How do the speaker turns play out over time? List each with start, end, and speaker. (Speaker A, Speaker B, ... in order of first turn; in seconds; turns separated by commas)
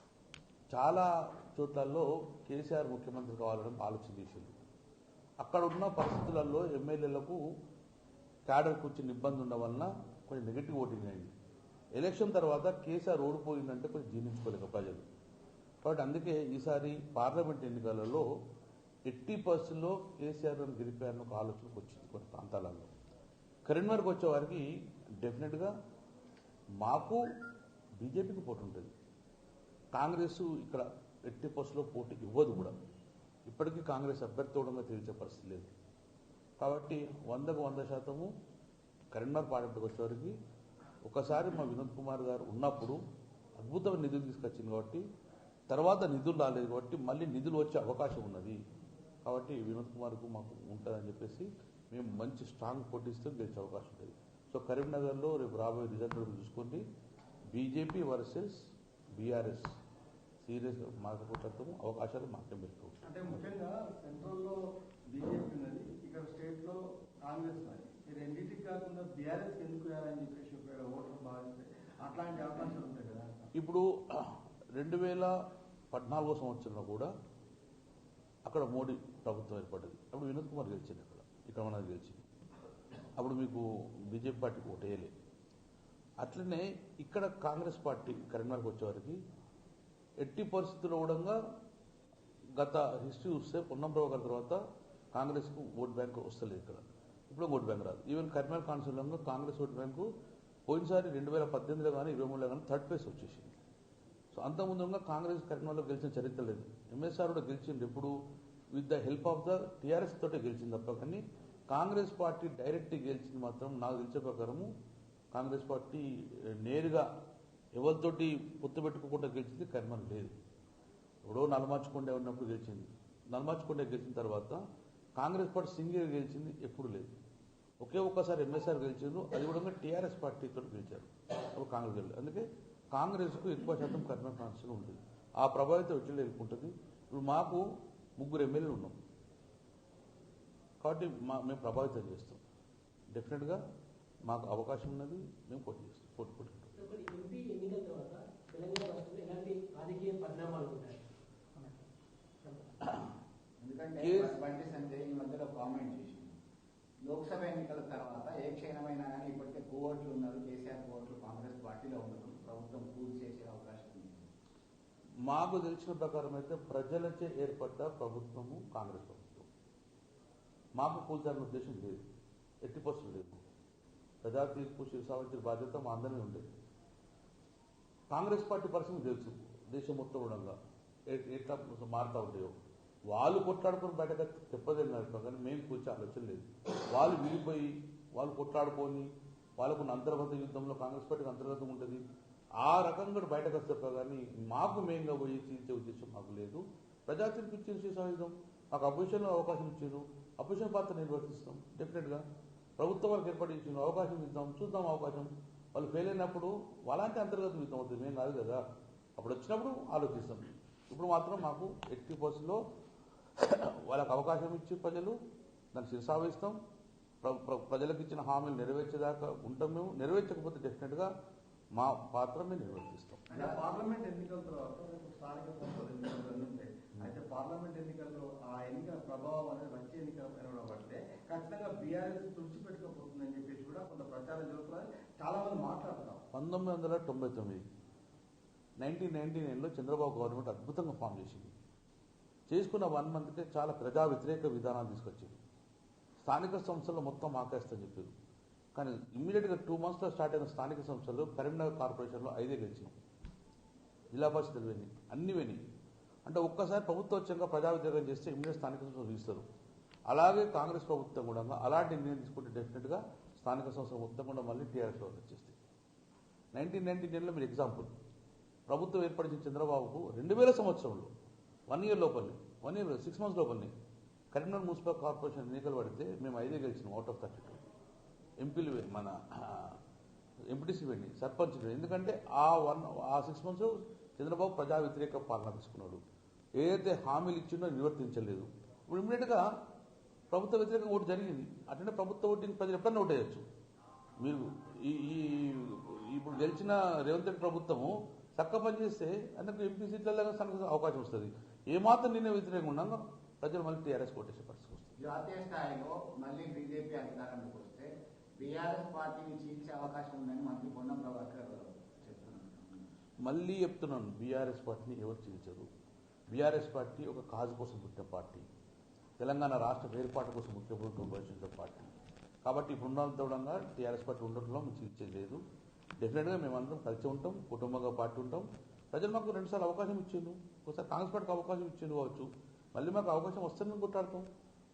Speaker A: 0.7-4.5, Speaker A: 5.4-7.4, Speaker A: 8.5-11.3, Speaker A: 11.9-15.1, Speaker A: 15.8-18.3, Speaker A: 19.1-22.9, Speaker A: 23.6-24.7, Speaker A: 25.2-25.7, Speaker A: 26.8-27.2, Speaker A: 28.0-28.9, Speaker A: 29.9-32.8, Speaker A: 33.5-35.7, Speaker A: 36.6-38.3, Speaker A: 39.1-40.4, Speaker A: 41.0-43.0, Speaker A: 43.6-45.0, Speaker A: 45.7-48.6, Speaker A: 49.2-56.8, Speaker A: 57.5-58.6, Speaker A: 59.1-59.8, Speaker A: 60.4-63.4, Speaker B: 63.0-64.6, Speaker B: 65.1-73.3, Speaker A: 73.6-75.4, Speaker A: 75.9-77.1, Speaker A: 78.5-82.2, Speaker A: 83.2-85.1, Speaker A: 86.2-89.2, Speaker A: 90.2-91.4, Speaker A: 92.6-94.6, Speaker A: 95.1-100.1, Speaker A: 100.7-103.6, Speaker A: 104.3-108.1, Speaker A: 108.7-114.7, Speaker A: 115.3-117.1, Speaker A: 117.8-120.3, Speaker A: 121.2-124.6, Speaker A: 125.2-127.1, Speaker A: 127.8-137.6, Speaker A: 138.2-139.0, Speaker A: 140.8-142.4, Speaker A: 143.1-143.6, Speaker A: 144.3-146.8, Speaker C: 146.8-151.0, Speaker D: 153.6-156.4, Speaker A: 154.0-154.4, Speaker D: 157.0-164.3, Speaker A: 165.2-169.5, Speaker A: 170.8-172.0, Speaker A: 172.6-173.4, Speaker A: 174.2-176.5, Speaker A: 178.1-180.6, Speaker A: 181.1-182.6, Speaker A: 183.1-192.0, Speaker A: 192.6-202.2, Speaker A: 202.8-208.6, Speaker A: 209.2-212.6, Speaker A: 213.4-215.2, Speaker A: 215.7-216.6, Speaker A: 217.2-221.1, Speaker A: 221.8-223.3, Speaker B: 223.3-236.2, Speaker D: 223.3-223.7, Speaker A: 236.3-237.6, Speaker A: 238.8-241.5, Speaker A: 242.5-245.4, Speaker A: 246.2-248.1, Speaker A: 248.8-253.0, Speaker A: 254.1-255.6, Speaker A: 256.3-259.4, Speaker A: 260.1-265.6, Speaker A: 266.5-267.9, Speaker A: 268.7-271.1, Speaker A: 271.7-273.7, Speaker A: 274.3-277.6, Speaker A: 278.4-279.8, Speaker A: 280.5-286.0, Speaker A: 286.6-289.5, Speaker A: 290.3-293.4, Speaker A: 294.2-305.0, Speaker D: 305.0-312.9, Speaker A: 313.2-315.7, Speaker A: 316.3-318.5, Speaker A: 319.2-321.9, Speaker A: 322.4-325.4, Speaker A: 326.0-334.3